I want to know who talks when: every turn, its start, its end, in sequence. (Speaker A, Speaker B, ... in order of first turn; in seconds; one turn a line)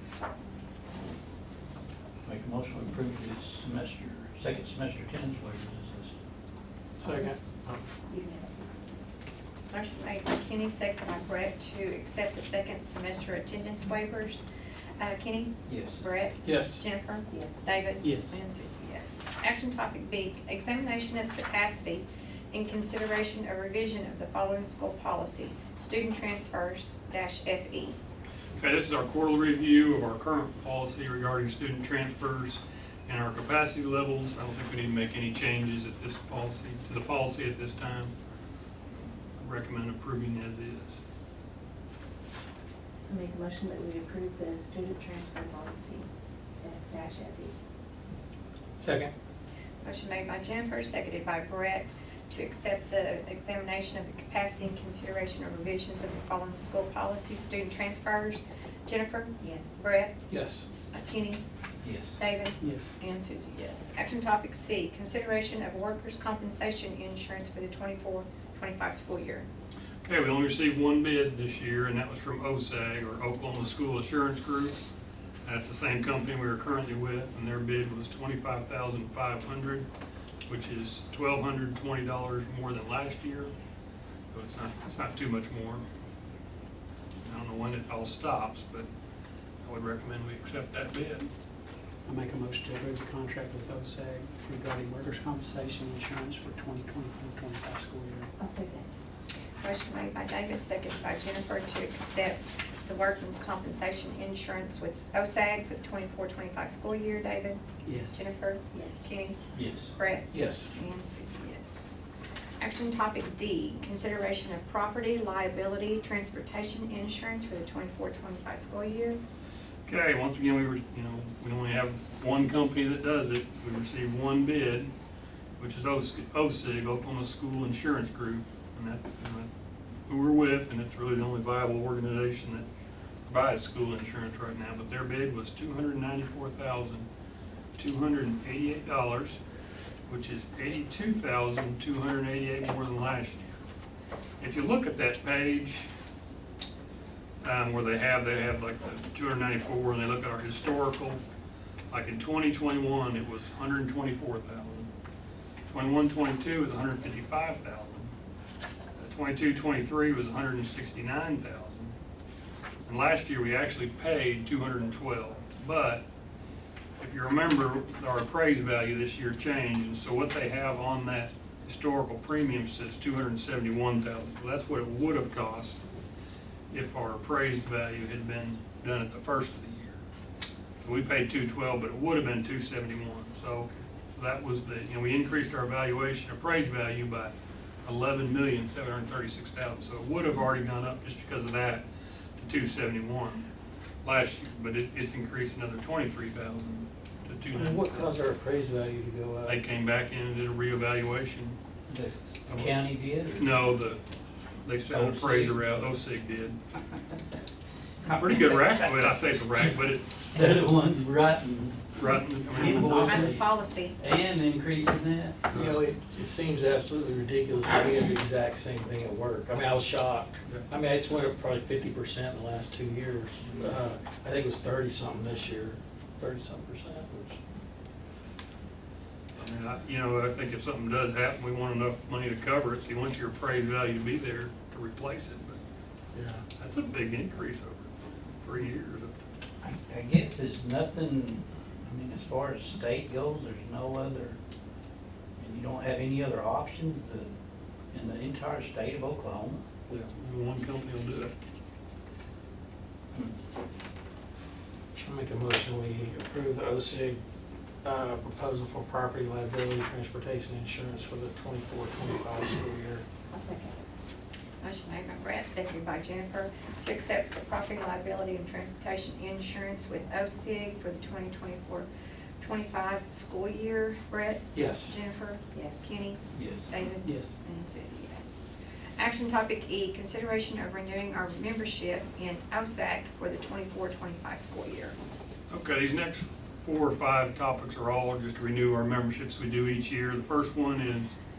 Speaker A: 2.2-6.2
Speaker B: 7.0-7.8
Speaker C: 7.0-7.3
Speaker C: 8.1-8.6
Speaker D: 9.7-14.4
Speaker D: 15.0-28.0
Speaker A: 15.7-16.1
Speaker B: 16.4-16.8
Speaker C: 17.3-17.8
Speaker E: 18.0-18.4
Speaker F: 28.6-38.1
Speaker F: 39.4-41.0
Speaker C: 43.1-46.1
Speaker C: 46.6-47.5
Speaker B: 48.8-49.1
Speaker D: 49.8-60.1
Speaker C: 59.4-59.8
Speaker B: 60.3-60.7
Speaker D: 60.9-61.4
Speaker A: 61.8-62.1
Speaker D: 62.2-69.5
Speaker E: 62.6-63.0
Speaker F: 70.0-74.8
Speaker F: 75.4-79.9
Speaker F: 80.5-83.5
Speaker F: 84.3-85.8
Speaker F: 87.2-88.9
Speaker F: 89.6-91.3
Speaker E: 92.0-98.3
Speaker C: 98.4-98.9
Speaker D: 99.6-107.6
Speaker E: 107.8-108.2
Speaker D: 108.1-109.4
Speaker C: 108.7-109.1
Speaker A: 109.5-109.9
Speaker D: 109.9-112.0
Speaker B: 110.3-110.7
Speaker D: 112.6-119.2
Speaker F: 119.8-124.9
Speaker F: 125.6-129.5
Speaker F: 130.1-132.7
Speaker F: 133.2-137.1
Speaker F: 137.8-139.4
Speaker F: 140.1-143.4
Speaker F: 144.4-145.9
Speaker F: 147.4-151.2
Speaker F: 151.9-154.9
Speaker F: 155.7-158.1
Speaker F: 159.0-161.9
Speaker F: 162.8-166.0
Speaker F: 167.0-175.8
Speaker F: 176.7-180.0
Speaker F: 180.8-187.3
Speaker F: 187.8-191.8
Speaker F: 192.4-193.4
Speaker F: 194.0-198.1
Speaker B: 197.5-199.6
Speaker F: 199.5-201.6
Speaker A: 201.9-203.6
Speaker F: 202.5-202.8
Speaker F: 203.3-204.0
Speaker F: 204.6-206.6
Speaker A: 204.9-205.8
Speaker A: 208.1-208.9
Speaker F: 208.1-210.1
Speaker A: 210.3-211.9
Speaker F: 212.0-213.3
Speaker A: 212.5-215.4
Speaker D: 212.5-213.9
Speaker F: 215.5-215.8
Speaker B: 215.5-227.4
Speaker F: 229.3-235.6
Speaker B: 236.1-236.4
Speaker F: 236.6-239.2
Speaker A: 239.6-244.4
Speaker A: 245.4-247.3
Speaker A: 247.9-249.6
Speaker F: 249.9-251.3
Speaker B: 255.0-257.2
Speaker B: 257.8-263.0
Speaker C: 263.3-263.8
Speaker D: 264.6-271.9
Speaker D: 272.4-284.9
Speaker B: 274.5-274.9
Speaker C: 275.5-275.9
Speaker A: 276.3-276.7
Speaker E: 277.0-277.3
Speaker F: 285.5-291.2